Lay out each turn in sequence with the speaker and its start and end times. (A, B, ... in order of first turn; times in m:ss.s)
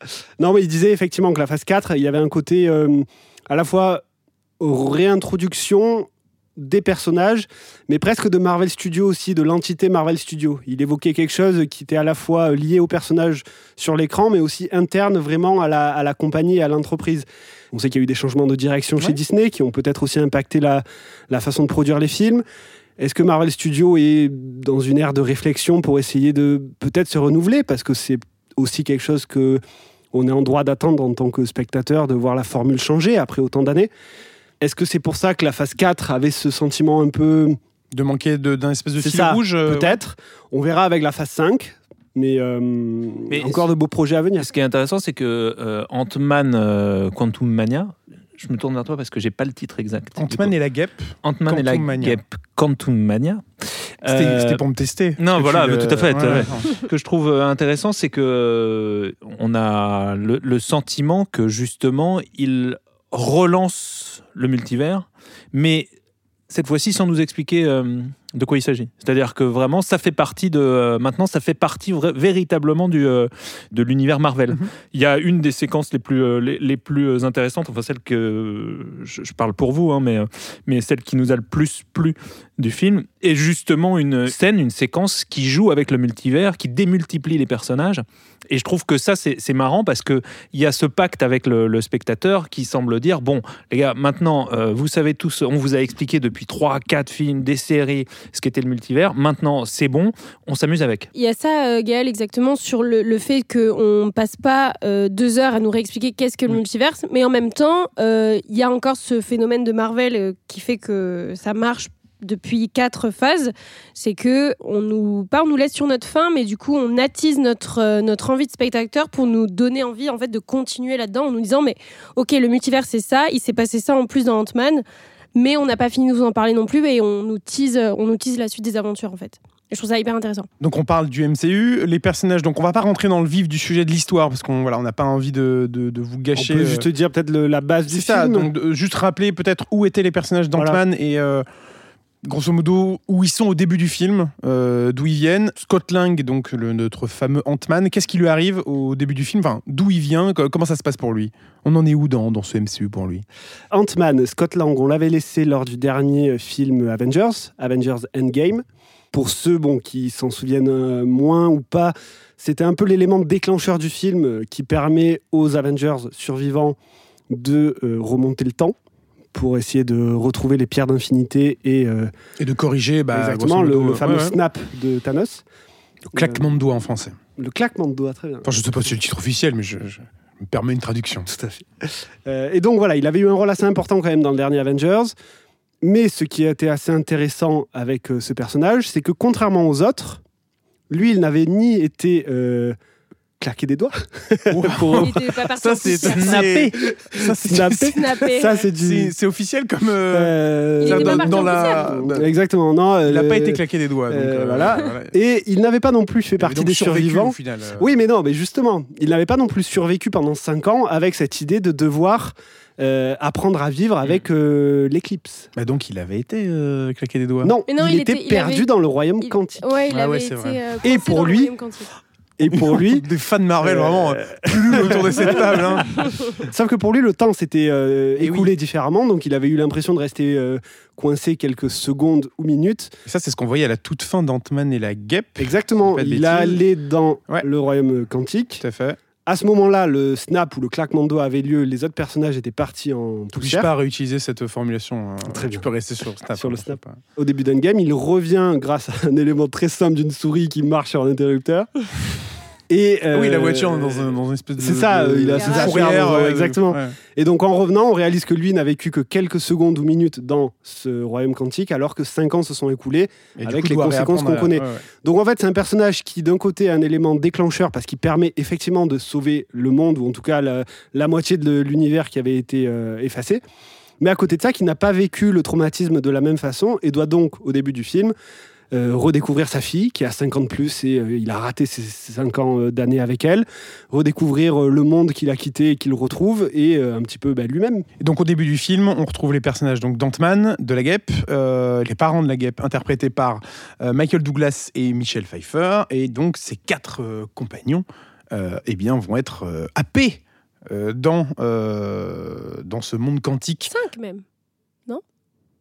0:00.4-0:04.0 A
0:04.6-0:22.4 A
0:23.0-0:29.6 A
0:30.1-0:33.9 A
0:34.6-0:37.6 A
0:37.9-0:40.0 B
0:39.0-0:44.5 A
0:43.3-0:43.7 C
0:44.4-0:50.5 C
0:50.2-0:52.2 B
0:51.2-0:54.6 C
0:54.0-0:56.6 B
0:55.2-1:05.9 C
1:06.5-1:41.1 C
1:41.1-2:04.8 D
2:05.3-2:10.5 D
2:10.6-2:16.9 B
2:16.3-2:18.5 A
2:17.9-2:21.4 B
2:22.2-2:33.2 B
2:33.7-2:46.8 A
2:47.3-2:48.7 A
2:49.3-2:52.1 A
2:52.4-2:54.4 B
2:53.1-2:55.4 A
2:56.1-2:57.2 B
2:56.1-2:56.4 A
2:57.4-2:58.9 A
2:58.4-3:01.3 B
3:01.3-3:05.1 A
3:05.8-3:10.2 A
3:10.9-3:12.8 A
3:13.4-3:15.1 A
3:14.5-3:22.3 B
3:15.0-3:16.5 D
3:16.0-3:16.7 C
3:16.8-3:19.1 A
3:17.9-3:18.6 D
3:20.1-3:35.5 A
3:20.8-3:21.9 D
3:23.0-3:25.2 B
3:26.4-3:27.9 B
3:35.6-3:37.5 B
3:37.4-3:39.6 A
3:37.7-3:38.7 D
3:39.2-3:41.9 D
3:39.9-3:40.6 B
3:40.8-3:41.5 A
3:42.4-3:43.0 A
3:42.4-3:46.0 B
3:43.6-3:52.9 A
3:48.2-3:48.5 B
3:53.1-3:56.6 B
3:55.4-3:58.6 A
3:58.6-3:59.0 B
3:59.2-4:03.7 A
4:03.3-4:07.0 B
4:05.3-4:05.7 A
4:06.4-4:11.9 A
4:12.7-4:33.4 A
4:13.1-4:16.9 B
4:15.4-4:15.7 D
4:23.4-4:24.8 B
4:34.0-4:38.1 A
4:38.7-4:47.8 A
4:48.0-5:03.7 B
5:03.7-5:04.2 D